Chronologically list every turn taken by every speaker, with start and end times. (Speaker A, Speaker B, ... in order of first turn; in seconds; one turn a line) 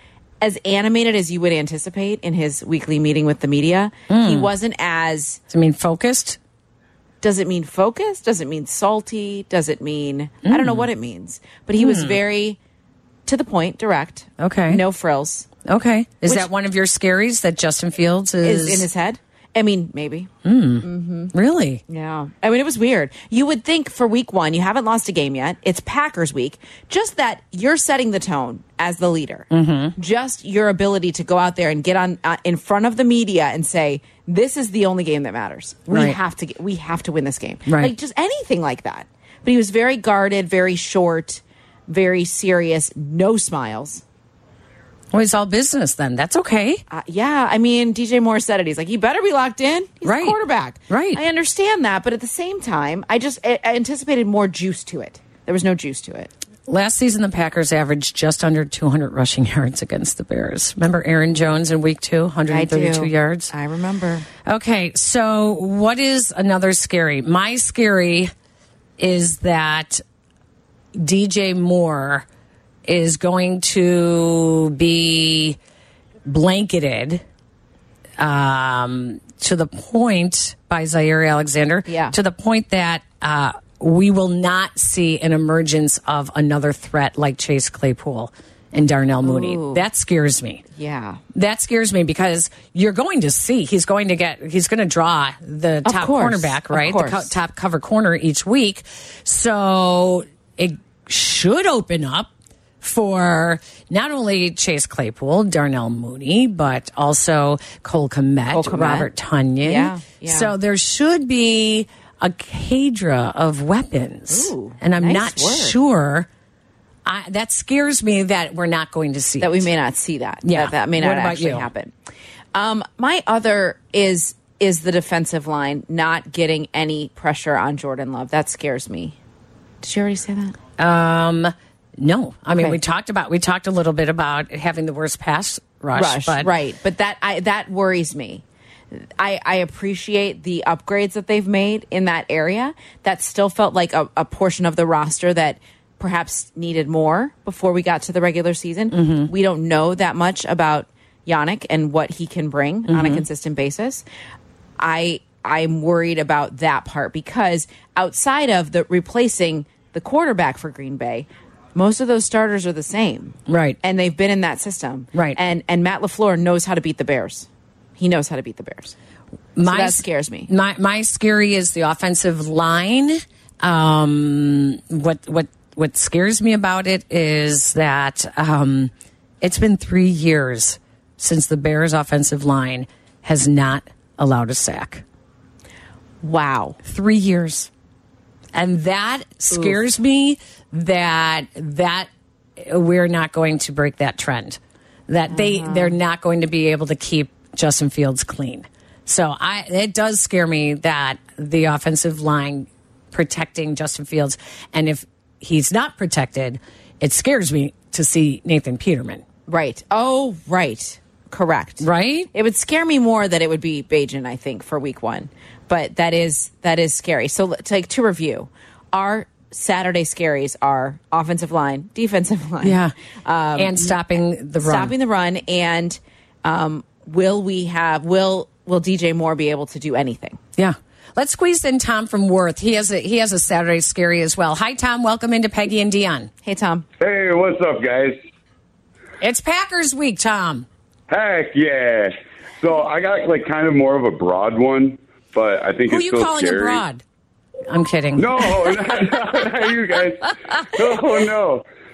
Speaker A: 0.4-5.4
Speaker B: 4.1-4.5
Speaker B: 5.5-6.4
Speaker A: 7.2-12.6
Speaker B: 10.4-10.9
Speaker B: 11.8-12.2
Speaker A: 13.2-15.5
Speaker B: 14.4-14.8
Speaker B: 15.6-18.9
Speaker A: 18.4-21.3
Speaker B: 20.4-21.8
Speaker A: 21.9-44.0
Speaker B: 29.5-29.9
Speaker B: 35.9-36.2
Speaker B: 37.6-37.9
Speaker B: 45.1-46.8
Speaker A: 46.9-56.3
Speaker B: 50.0-51.2
Speaker B: 56.7-63.5
Speaker A: 62.5-64.3
Speaker B: 64.5-68.3
Speaker B: 69.0-70.0
Speaker B: 71.0-72.2
Speaker B: 72.9-75.6
Speaker B: 76.2-77.2
Speaker B: 78.2-90.6
Speaker A: 81.9-82.2
Speaker A: 89.2-89.8
Speaker A: 90.7-91.2
Speaker B: 91.3-116.3
Speaker A: 95.8-97.3
Speaker A: 108.5-109.1
Speaker A: 109.6-110.5
Speaker A: 114.3-115.8
Speaker B: 117.0-119.7
Speaker A: 119.4-121.9
Speaker B: 120.4-121.7
Speaker A: 122.5-129.2
Speaker A: 129.8-130.6
Speaker B: 130.8-136.5
Speaker A: 135.9-154.0
Speaker B: 148.9-149.3
Speaker B: 152.9-153.2
Speaker A: 154.8-168.9
Speaker B: 163.5-163.8
Speaker B: 165.1-165.4
Speaker B: 169.6-178.9
Speaker A: 169.6-170.5
Speaker B: 179.4-185.0
Speaker A: 186.2-186.8
Speaker B: 186.8-187.7
Speaker B: 188.5-209.2
Speaker A: 189.5-189.8
Speaker A: 195.3-195.9
Speaker A: 209.5-230.4
Speaker B: 211.8-212.3
Speaker B: 222.6-222.9
Speaker B: 223.6-224.9
Speaker B: 230.6-236.3
Speaker A: 236.4-236.8
Speaker C: 237.0-238.2
Speaker B: 239.2-240.7
Speaker C: 241.1-246.8
Speaker B: 245.9-247.0
Speaker B: 247.7-248.8
Speaker C: 248.2-251.6